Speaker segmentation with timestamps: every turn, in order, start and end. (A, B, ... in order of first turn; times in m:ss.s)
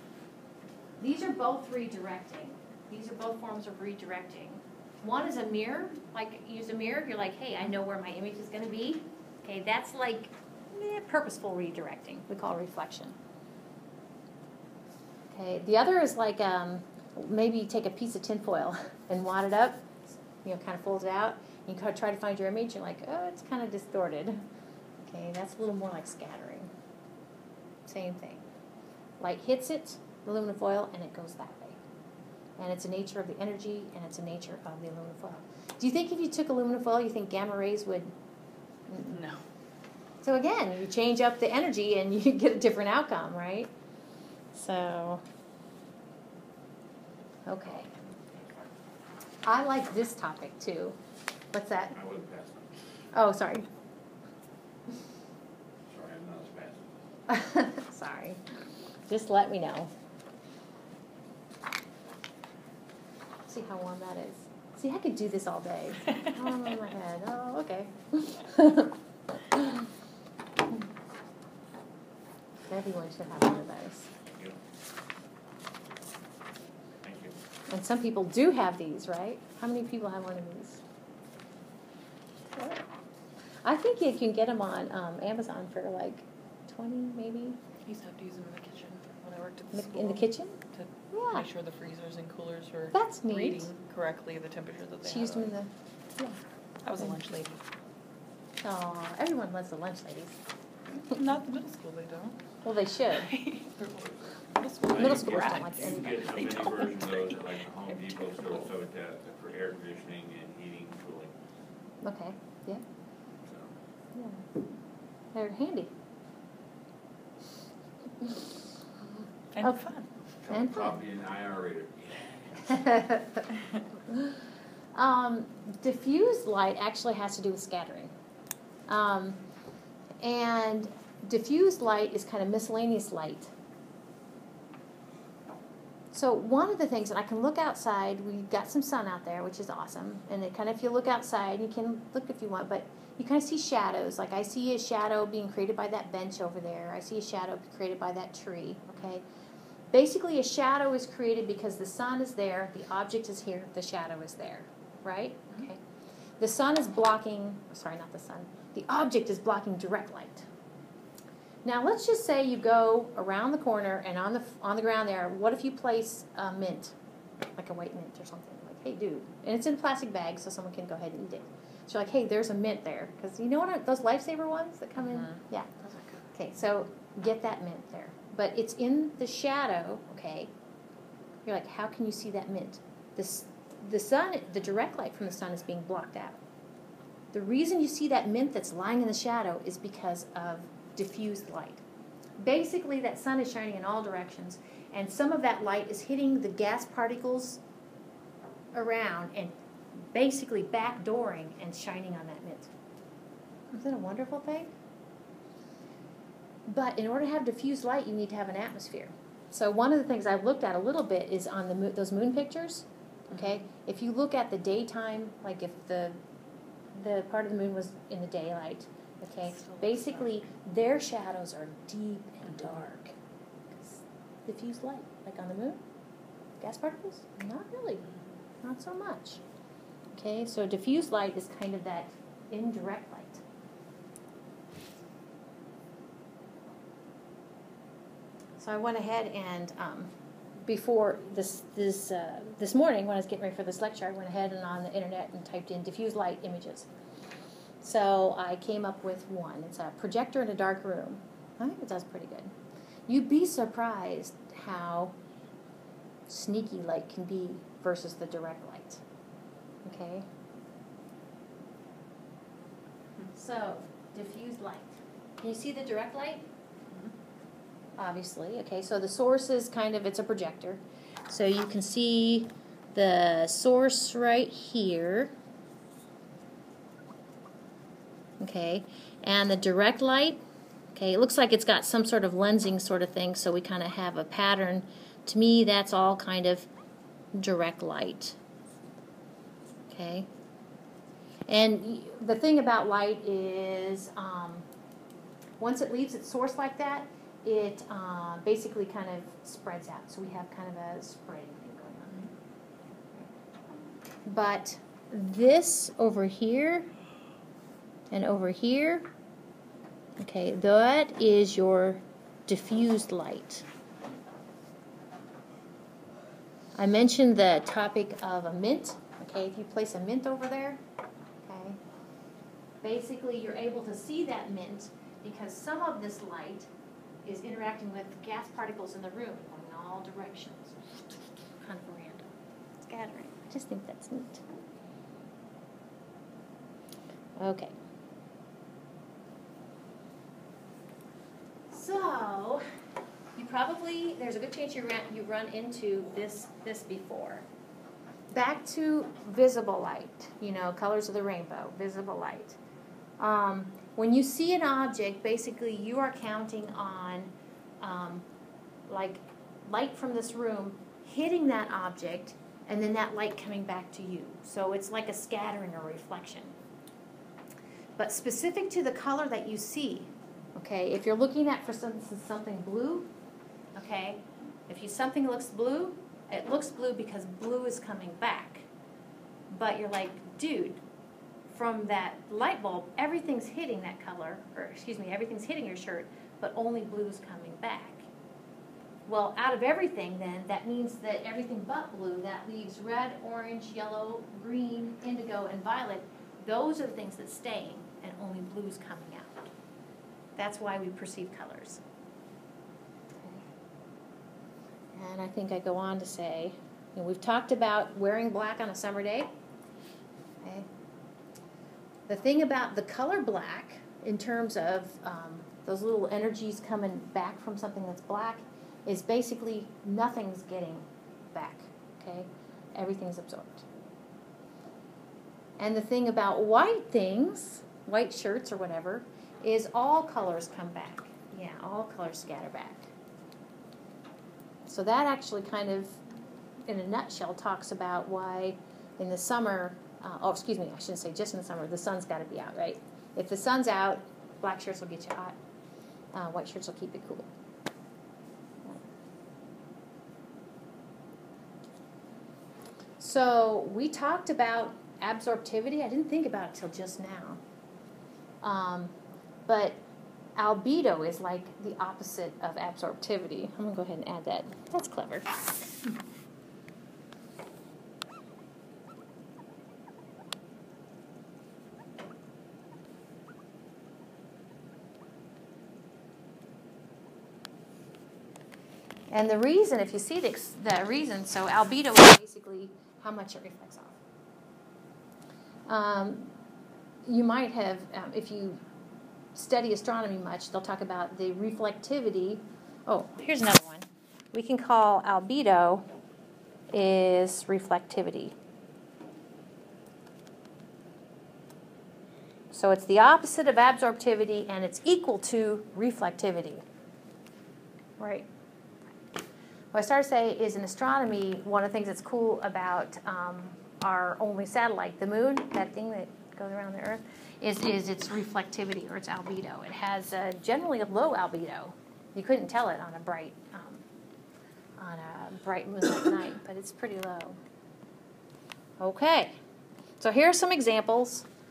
0:01.0-0:13.2 A
0:15.3-0:19.9 A
0:20.4-0:24.4 A
0:25.0-0:26.7 A
0:27.9-0:28.4 A
0:29.2-0:31.8 A
0:32.6-0:38.1 A
0:38.9-0:39.1 A
0:39.0-0:39.4 B
0:40.2-0:43.7 A
0:44.5-0:45.2 A
0:47.4-0:47.9 A
0:49.4-0:51.0 A
0:51.5-0:52.0 A
0:51.9-0:52.7 C
0:53.1-0:53.7 A
0:55.9-0:56.9 C
0:57.3-0:58.4 A
0:59.1-0:59.9 A
1:03.5-1:09.0 A
1:09.5-1:09.8 A
1:12.7-1:14.1 A
1:14.3-1:14.6 C
1:17.0-1:17.4 C
1:17.7-1:20.8 A
1:22.5-1:22.8 A
1:23.6-1:27.6 A
1:27.8-1:35.5 B
1:29.7-1:30.6 A
1:31.1-1:31.5 A
1:32.9-1:33.7 A
1:35.0-1:36.4 A
1:36.8-1:37.6 B
1:38.6-1:40.4 A
1:40.9-1:42.4 B
1:42.6-1:43.3 A
1:43.2-1:47.2 B
1:44.8-1:51.3 C
1:44.9-1:46.2 A
1:52.0-1:52.8 A
1:53.4-1:53.7 C
1:54.1-1:54.4 A
1:55.3-1:55.9 A
1:59.5-2:00.0 B
1:59.6-2:00.9 A
2:00.4-2:02.7 C
2:02.6-2:03.4 A
2:04.9-2:08.1 A
2:08.9-2:09.4 A
2:10.2-2:13.5 A
2:16.1-2:29.2 A
2:29.9-2:35.8 A
2:36.4-2:40.5 A
2:41.6-2:46.9 A
2:47.6-2:55.7 A
2:55.8-2:56.2 B
2:56.3-3:00.5 A
3:01.4-3:06.4 A
3:07.3-3:11.8 A
3:12.4-3:17.6 A
3:18.7-3:19.5 A
3:20.1-3:22.7 A
3:23.7-3:24.7 A
3:26.6-3:36.2 A
3:36.9-3:43.1 A
3:43.8-3:45.8 A
3:46.6-3:48.1 A
3:48.6-3:49.4 A
3:50.1-3:53.4 A
3:58.6-4:00.1 A
4:00.7-4:06.9 A
4:07.8-4:12.5 A
4:13.1-4:15.1 A
4:16.3-4:19.0 A
4:19.8-4:20.2 A
4:23.3-4:26.4 A
4:28.0-4:35.3 A
4:38.4-4:40.4 A
4:40.9-4:46.7 A
4:47.3-4:48.4 A
4:49.9-4:50.3 A
4:51.5-4:54.6 A
4:55.6-5:02.3 A
5:04.2-5:06.9 A
5:08.1-5:09.1 A
5:10.2-5:13.6 A
5:16.8-5:20.8 A
5:21.4-5:21.8 A
5:22.8-5:26.7 A
5:27.2-5:32.3 A
5:32.8-5:34.4 A
5:37.4-5:37.7 A
5:41.7-5:42.6 A
5:43.4-5:47.4 A
5:48.3-5:52.6 A
5:53.2-5:58.2 A
5:58.9-6:06.5 A
6:08.0-6:13.1 A
6:13.7-6:18.7 A
6:19.5-6:20.8 A
6:21.5-6:28.1 A
6:29.1-6:39.5 A
6:40.4-6:41.8 A
6:44.9-6:49.3 A
6:50.4-6:50.7 A
6:52.1-7:03.6 A
7:05.6-7:12.9 A
7:14.6-7:16.0 A
7:16.7-7:25.4 A
7:26.1-7:27.3 A
7:33.0-7:37.4 A
7:38.4-7:38.9 A
7:39.5-7:39.8 A
7:40.4-7:45.4 A
7:59.1-8:04.0 A
8:05.7-8:06.3 A
8:07.0-8:08.6 A
8:09.3-8:15.8 A
8:16.7-8:18.3 A
8:22.5-8:26.6 A
8:28.0-8:28.3 A
8:29.7-8:43.8 A
8:44.8-8:47.4 A
8:48.8-8:49.4 A
8:50.0-8:51.3 A